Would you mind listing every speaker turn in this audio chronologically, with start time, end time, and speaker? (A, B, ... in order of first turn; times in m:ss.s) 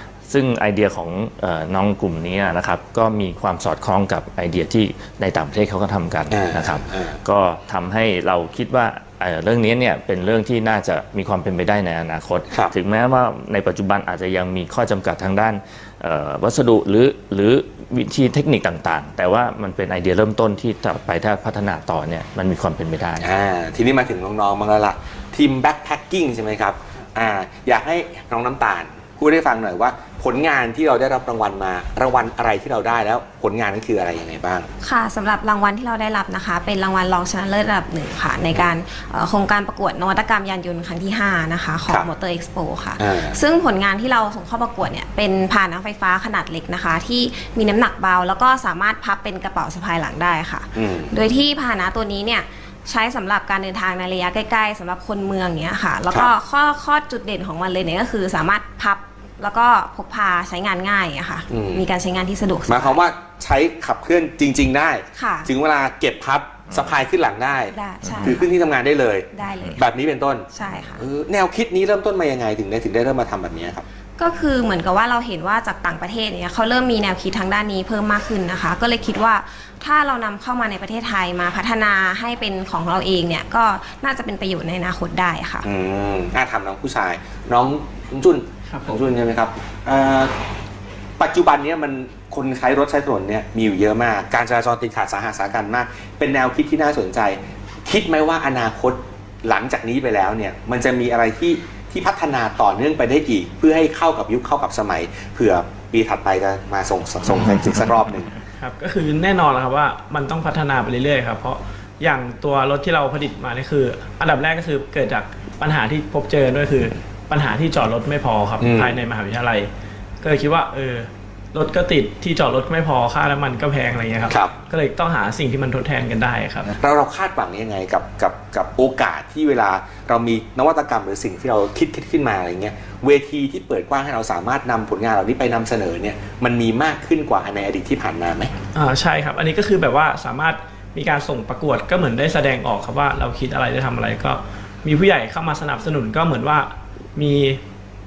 0:00.3-0:23.2 A
0:06.3-0:07.2 B
0:12.5-0:12.7 B
0:23.2-0:34.7 B
0:34.8-1:03.0 C
0:43.0-0:43.4 B
0:50.7-0:51.1 B
1:01.5-1:01.8 B
1:02.7-1:13.8 B
1:05.1-1:05.5 C
1:06.7-1:07.0 A
1:07.7-1:08.4 C
1:08.0-1:08.4 A
1:09.3-1:09.8 C
1:10.5-1:11.0 C
1:14.2-1:25.7 C
1:25.6-1:30.4 B
1:28.7-1:28.9 D
1:31.2-1:48.3 B
1:48.5-1:59.7 D
1:58.6-1:59.0 B
2:00.2-2:06.7 D
2:06.8-2:18.5 B
2:18.7-2:27.6 D